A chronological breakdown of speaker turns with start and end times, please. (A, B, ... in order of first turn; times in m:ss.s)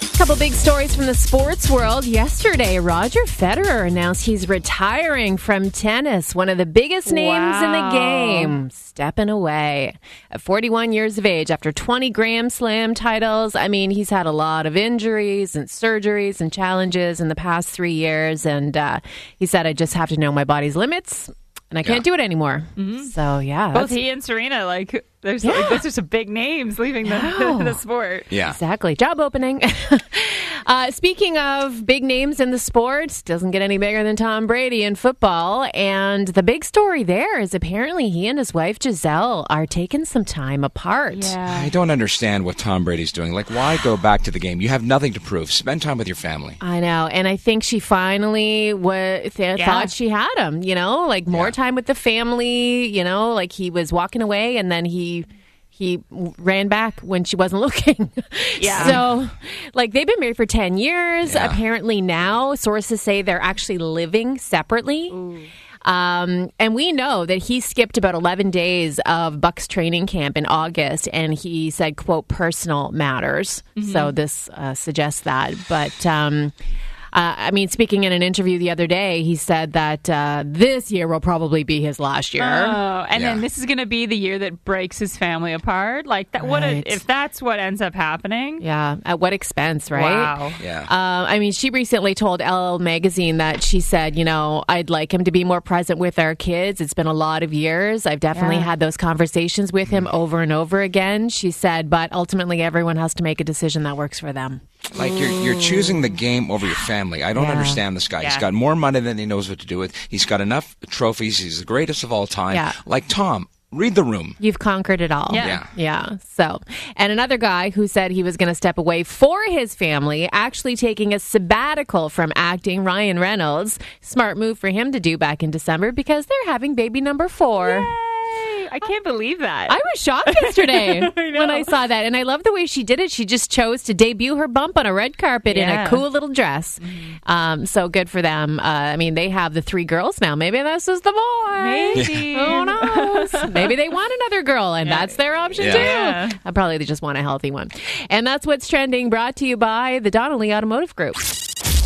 0:00.1-0:24.0 A
0:07.1-0:08.6 B
0:22.8-0:23.1 B
0:23.7-0:28.3 B
0:25.4-0:25.8 A
0:27.0-0:27.8 A
0:28.3-0:28.6 C
0:28.4-0:41.3 A
0:41.1-0:41.7 B
0:41.5-0:46.6 C
0:46.6-1:05.2 A
0:49.6-0:49.9 B
0:58.6-0:59.0 B
0:58.8-0:59.0 C
1:01.2-1:01.6 C
1:05.1-1:05.5 B
1:05.8-1:16.5 A
1:13.8-1:14.1 B
1:17.1-1:22.8 A
1:22.4-1:28.6 B
1:23.1-1:23.4 C
1:26.4-1:27.0 A
1:28.6-1:46.0 A
1:29.9-1:30.6 B
1:30.6-1:30.9 C
1:38.3-1:38.7 B
1:44.9-1:54.4 C
1:47.4-1:47.8 A
1:48.2-1:48.5 B
1:52.5-1:52.8 A
1:54.4-2:07.9 A
1:55.3-1:55.6 B
1:55.4-1:55.7 C
2:07.6-2:11.7 B
2:09.7-2:31.3 A
2:15.5-2:16.0 B
2:16.8-2:17.2 B
2:21.6-2:23.7 B
2:24.8-2:26.4 B
2:25.6-2:25.9 C